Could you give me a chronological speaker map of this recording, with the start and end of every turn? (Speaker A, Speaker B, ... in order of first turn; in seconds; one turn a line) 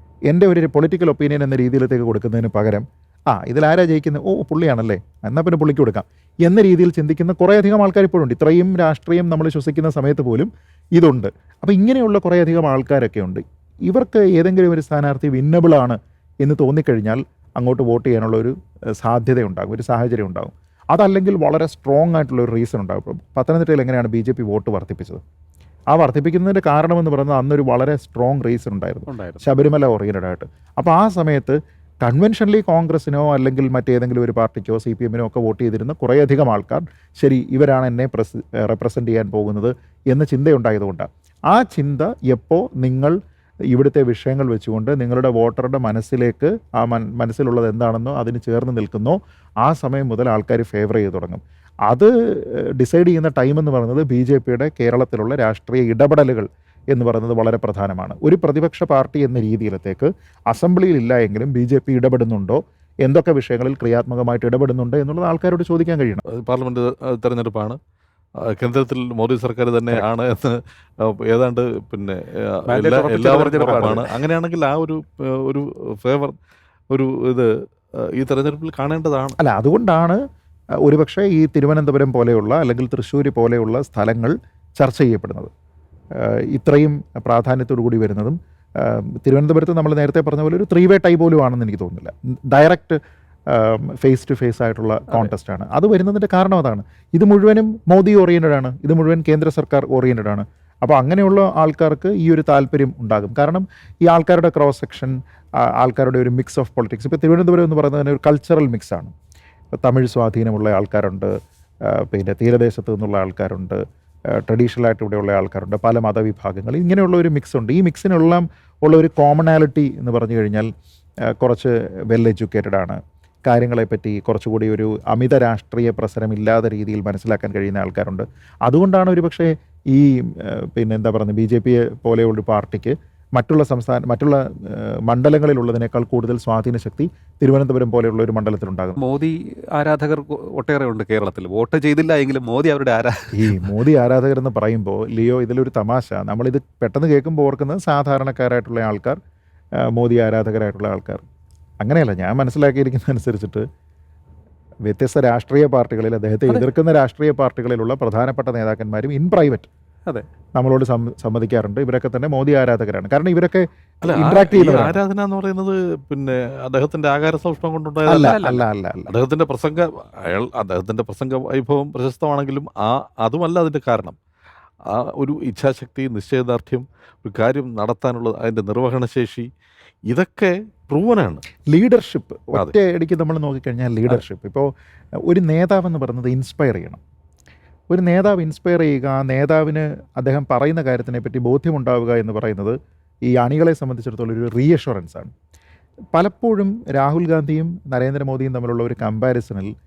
Speaker A: 0.3-25.2
Speaker A: 25.9-43.2
Speaker B: 29.1-29.6
Speaker A: 43.7-66.2
Speaker C: 66.2-67.8
Speaker C: 68.4-76.3
Speaker B: 72.7-74.1
Speaker A: 73.6-74.0
Speaker C: 76.9-79.4
Speaker A: 79.4-80.2
Speaker A: 80.8-85.5
Speaker A: 86.1-105.1
Speaker A: 105.8-109.1
Speaker A: 109.8-111.3
Speaker A: 111.8-120.7
Speaker A: 121.4-139.0
Speaker B: 139.0-143.7
Speaker A: 143.3-149.2
Speaker A: 149.8-151.2
Speaker A: 151.8-153.6
Speaker A: 154.8-159.7
Speaker A: 160.6-165.0
Speaker C: 164.0-168.5
Speaker B: 164.2-164.8
Speaker A: 168.0-169.1
Speaker B: 168.2-168.6
Speaker C: 169.1-174.2
Speaker C: 174.9-179.5
Speaker C: 180.1-181.4
Speaker A: 181.7-184.7
Speaker A: 185.3-187.0
Speaker A: 187.9-192.8
Speaker A: 193.3-195.3
Speaker A: 196.1-199.7